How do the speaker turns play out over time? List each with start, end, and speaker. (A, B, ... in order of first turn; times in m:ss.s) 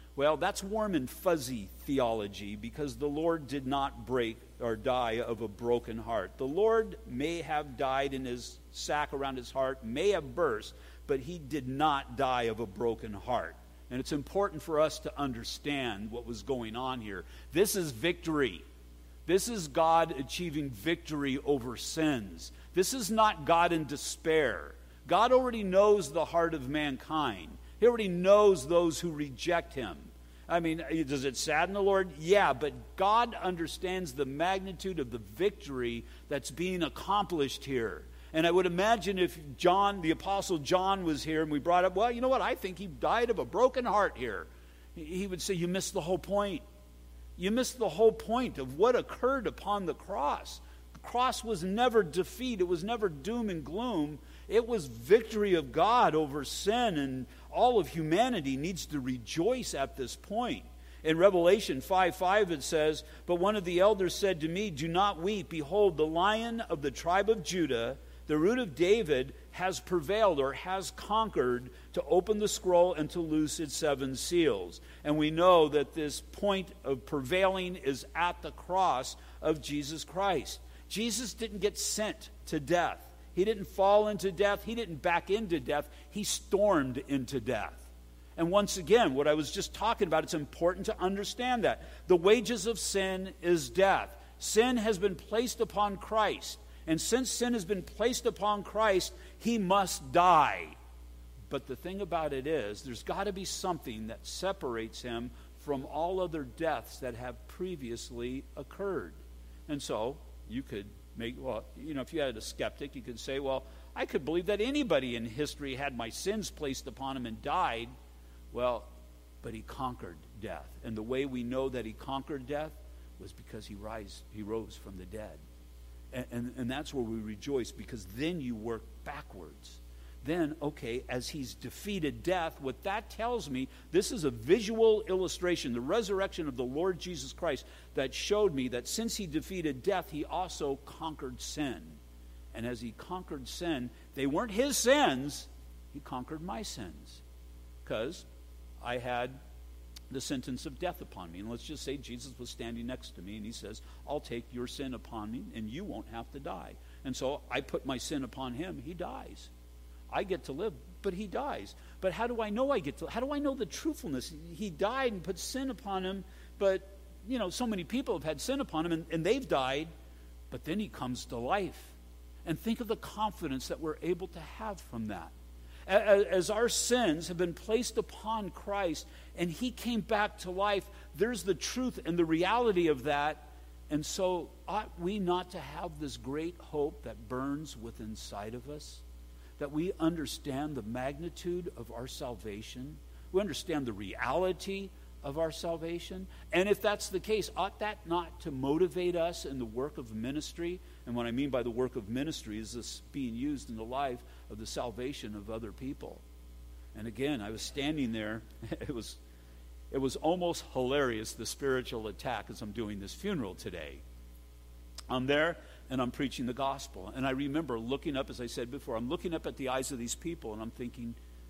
0:00.2-0:18.6 A
0:19.2-0:46.6 A
0:47.4-1:40.8 A
1:41.5-1:57.9 A
1:58.5-1:58.9 A
1:59.4-2:05.4 A
2:06.1-2:22.0 A
2:22.5-2:27.2 A
2:27.8-2:28.2 A
2:28.8-2:29.4 A
2:30.1-2:39.5 A
2:40.1-2:49.9 A
2:50.5-2:55.3 A
2:55.9-3:09.0 A
3:09.6-3:26.2 A
3:26.9-3:29.2 A
3:29.9-3:34.0 A
3:35.1-3:41.2 A